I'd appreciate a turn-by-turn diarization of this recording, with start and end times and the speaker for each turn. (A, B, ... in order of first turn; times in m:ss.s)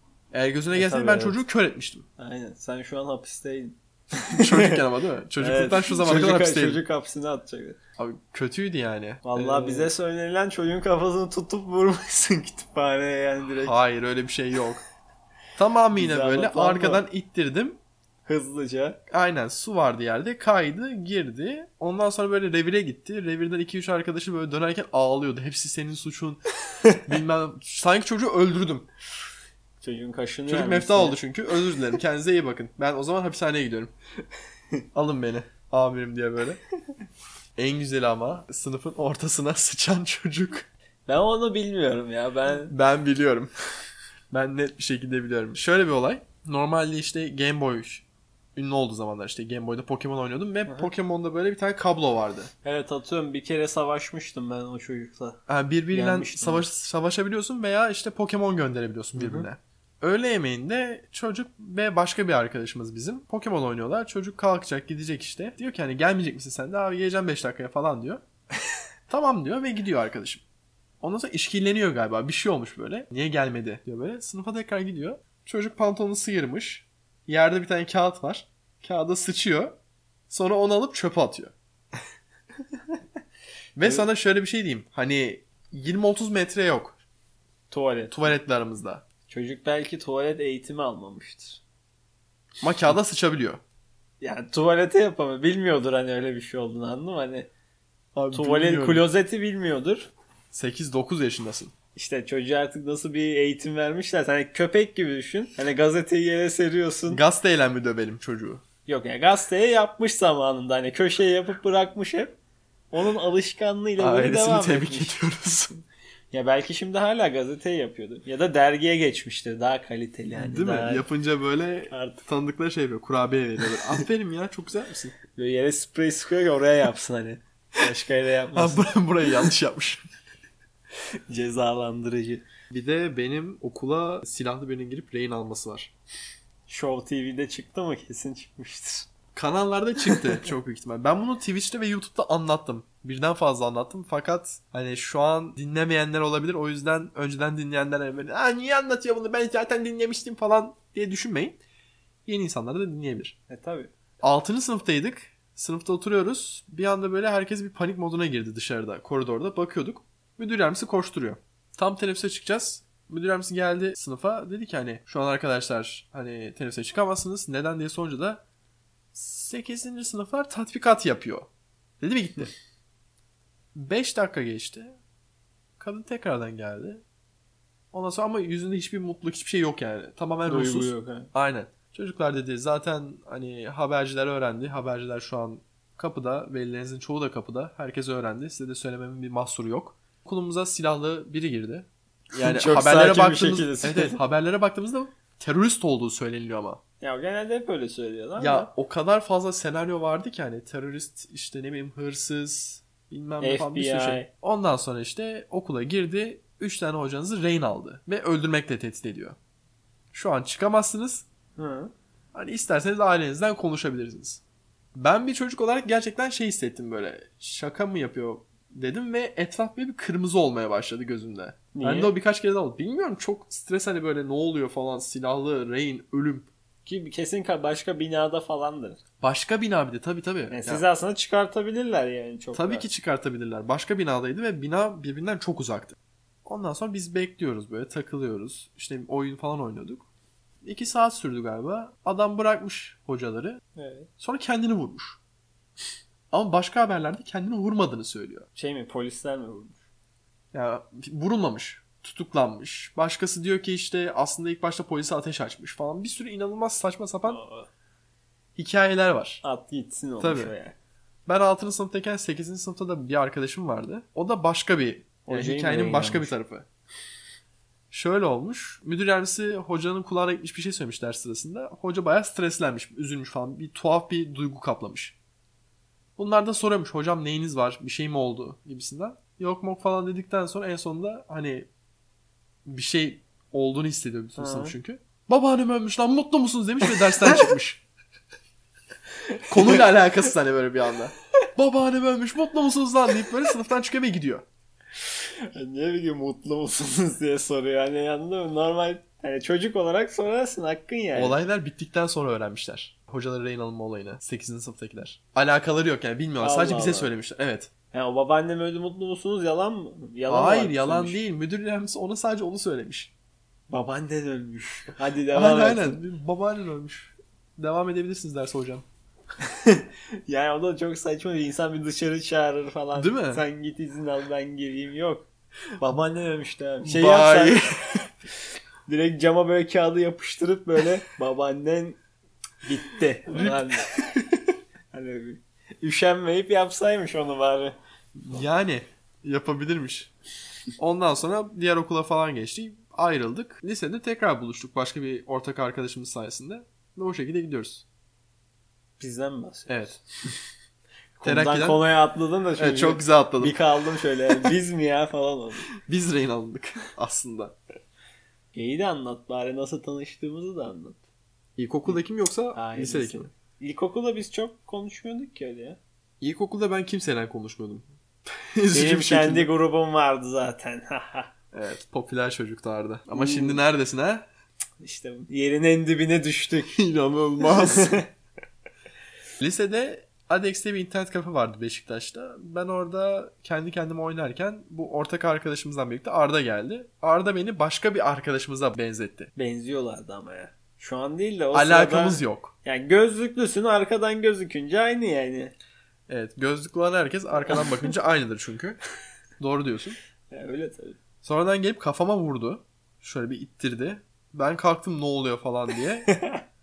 0:00.3-0:02.1 A
0:00.7-0:01.4 B
0:02.2-0:04.8 B
0:04.3-0:06.8 A
0:05.4-0:07.8 B
0:08.0-0:09.9 A
0:09.2-0:13.7 B
0:13.6-0:14.8 A
0:15.6-0:17.8 A
0:16.0-0:17.0 B
0:18.3-0:19.0 B
0:19.1-0:26.4 A
0:26.7-0:27.0 B
0:27.0-0:28.9 A
0:29.8-0:31.2 B
0:30.5-0:33.9 A
0:34.9-0:36.6 A
0:37.6-0:40.7 A
0:41.1-0:42.7 B
0:42.5-0:43.5 A
0:44.3-0:48.0 A
0:48.6-0:52.5 A
0:52.6-0:55.4 B
0:55.5-1:08.2 A
0:55.9-0:56.6 B
0:59.2-0:59.5 B
1:09.1-1:10.4 A
1:11.0-1:19.8 A
1:20.3-1:21.5 A
1:23.8-1:27.0 A
1:23.8-1:24.1 B
1:27.7-1:28.4 B
1:28.1-1:29.0 A
1:29.3-1:31.6 B
1:32.6-1:33.6 A
1:34.2-1:37.5 B
1:38.2-1:39.1 A
1:38.3-1:40.1 B
1:40.5-1:41.7 A
1:42.0-1:47.2 B
1:47.1-1:48.6 A
1:48.9-1:52.4 B
1:52.9-1:55.2 B
1:54.0-1:55.8 A
1:56.3-2:01.1 B
2:00.4-2:05.2 A
2:01.9-2:02.2 B
2:03.6-2:04.0 B
2:05.4-2:09.5 B
2:08.5-2:10.0 A
2:11.3-2:12.4 B
2:12.7-2:15.9 A
2:16.7-2:19.1 B
2:19.3-2:31.6 A
2:20.0-2:20.4 B
2:32.3-2:33.4 A
2:33.5-2:33.9 B
2:34.2-2:48.4 A
2:49.1-2:51.5 A
2:52.0-2:52.5 A
2:53.8-2:55.0 A
2:55.8-2:57.0 A
2:57.9-3:16.8 A
3:00.5-3:01.3 B
3:12.3-3:14.2 B
3:17.0-3:18.7 B
3:18.4-3:29.4 A
3:23.4-3:24.3 B
3:30.1-3:31.2 A
3:31.6-3:31.9 B
3:32.3-3:34.4 A
3:35.0-3:46.5 A
3:41.7-3:42.1 B
3:46.8-3:49.0 B
3:49.2-3:50.8 A
3:50.5-3:52.9 B
3:52.5-4:00.1 A
4:00.6-4:03.6 A
4:03.8-4:04.1 B
4:04.2-4:05.2 A
4:06.3-4:08.5 A
4:08.6-4:09.8 B
4:10.5-4:17.4 A
4:17.3-4:17.7 B
4:18.6-4:19.4 A
4:19.4-4:20.8 B
4:20.2-4:20.5 A
4:21.3-4:26.6 A
4:25.3-4:26.3 B
4:27.9-4:35.2 A
4:36.2-4:41.7 A
4:42.7-4:47.8 A
4:44.4-4:44.8 B
4:49.3-4:49.9 B
4:49.5-4:54.4 A
4:55.2-5:01.4 B
5:01.1-5:07.7 A
5:06.4-5:07.1 B
5:07.9-5:11.2 B
5:10.3-5:13.1 A
5:13.7-5:16.0 B
5:15.3-5:18.8 A
5:19.4-5:25.3 B
5:23.0-5:23.4 A
5:25.8-5:27.8 B
5:26.8-5:28.0 A
5:28.9-5:32.0 B
5:32.6-5:34.0 B
5:33.3-5:34.5 A
5:34.9-5:37.8 B
5:38.2-5:40.1 A
5:40.8-5:47.8 A
5:49.0-5:50.0 B
5:49.7-5:50.0 A
5:51.2-5:55.7 B
5:51.2-5:51.8 A
5:52.6-5:53.6 A
5:55.8-5:57.6 A
5:58.5-6:01.0 B
6:01.6-6:03.3 A
6:02.5-6:05.8 B
6:06.2-6:09.5 A
6:08.7-6:11.3 B
6:11.5-6:14.3 A
6:13.1-6:13.6 B
6:14.8-6:16.8 B
6:16.7-6:18.0 A
6:17.4-6:18.1 B
6:19.4-6:29.3 A
6:29.4-6:35.5 B
6:31.5-6:32.5 A
6:36.1-6:38.8 A
6:37.5-6:37.9 B
6:39.4-6:40.0 A
6:40.3-6:41.0 B
6:41.2-6:46.1 A
6:46.1-6:46.4 B